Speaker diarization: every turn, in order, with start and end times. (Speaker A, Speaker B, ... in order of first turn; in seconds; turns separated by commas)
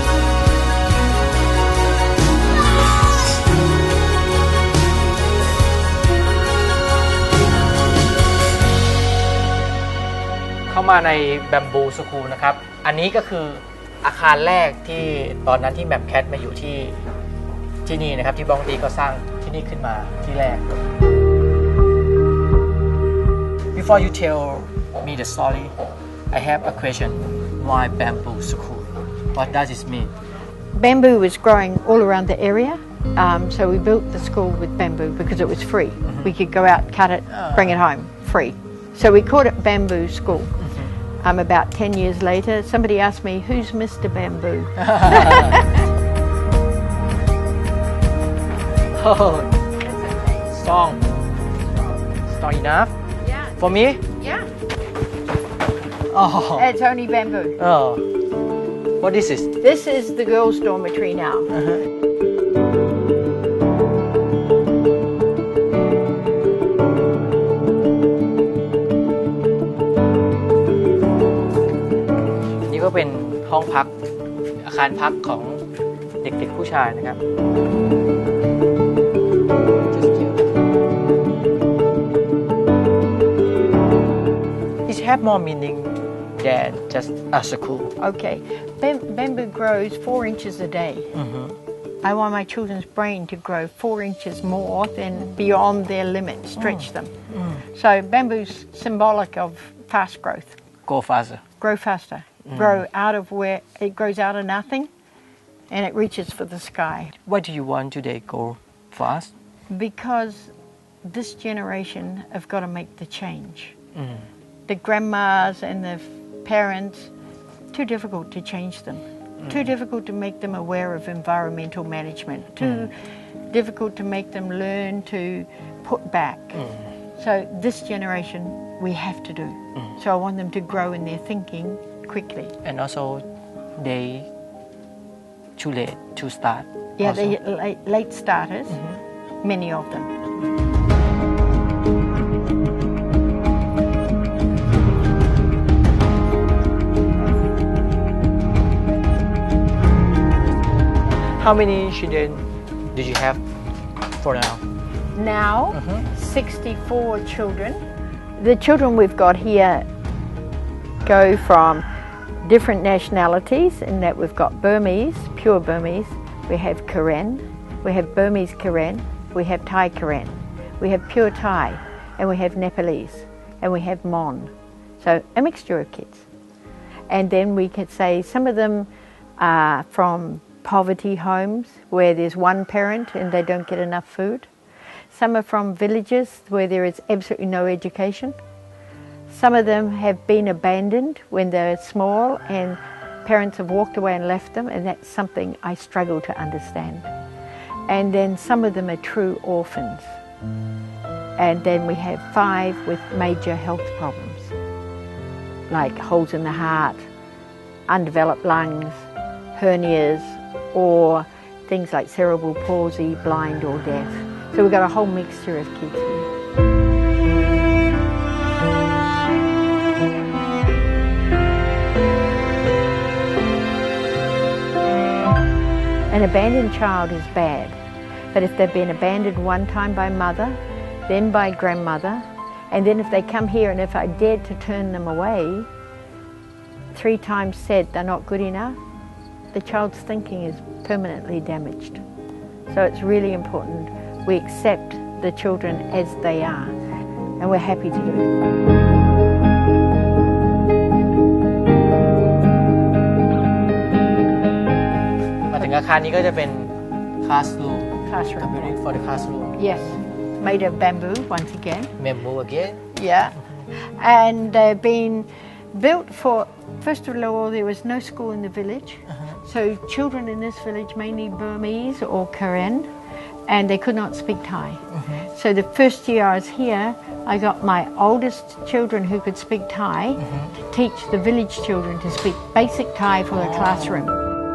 Speaker A: 10.7-17.0, Speaker A: 17.9-20.8, Speaker A: 23.7-25.8, Speaker A: 26.3-30.1, Speaker B: 30.7-40.6, Speaker A: 37.3-37.7, Speaker B: 41.2-45.8, Speaker A: 44.8-45.7, Speaker A: 48.9-49.5, Speaker A: 50.5-51.0, Speaker A: 51.8-52.9, Speaker B: 53.2-54.5, Speaker A: 53.6-54.0, Speaker A: 56.1-56.7, Speaker B: 56.5-57.6, Speaker A: 57.6-58.0, Speaker A: 59.0-59.5, Speaker B: 59.6-61.5, Speaker A: 72.5-73.9, Speaker A: 74.6-75.6, Speaker A: 76.2-77.2, Speaker A: 79.9-80.5, Speaker A: 84.8-87.9, Speaker B: 88.0-91.1, Speaker A: 91.1-91.6, Speaker B: 92.0-100.6, Speaker A: 96.6-97.6, Speaker A: 100.9-101.4, Speaker B: 101.6-104.9, Speaker B: 105.7-107.1, Speaker A: 107.2-109.3, Speaker B: 109.7-110.5, Speaker B: 111.0-113.8, Speaker A: 113.9-114.3, Speaker B: 114.7-117.1, Speaker B: 117.7-123.0, Speaker B: 123.5-132.5, Speaker A: 132.6-134.3, Speaker A: 135.6-137.3, Speaker B: 137.0-138.8, Speaker B: 139.4-140.1, Speaker A: 151.2-153.4, Speaker A: 154.2-154.6, Speaker B: 155.1-157.8, Speaker A: 155.7-156.0, Speaker B: 158.4-159.9, Speaker B: 161.0-161.8, Speaker B: 162.4-176.3, Speaker B: 177.1-184.5, Speaker B: 185.1-188.3, Speaker B: 189.3-197.1, Speaker B: 197.9-200.2, Speaker B: 201.4-204.5, Speaker B: 205.7-207.0, Speaker B: 207.9-216.3, Speaker B: 226.1-227.8, Speaker B: 228.3-235.7, Speaker B: 236.9-238.8, Speaker B: 239.5-242.0, Speaker B: 242.7-246.7, Speaker B: 247.4-248.3, Speaker A: 255.5-259.6, Speaker B: 258.1-258.8, Speaker B: 259.6-261.9, Speaker A: 262.0-262.8, Speaker B: 262.9-272.9, Speaker B: 273.4-284.2, Speaker A: 283.3-284.0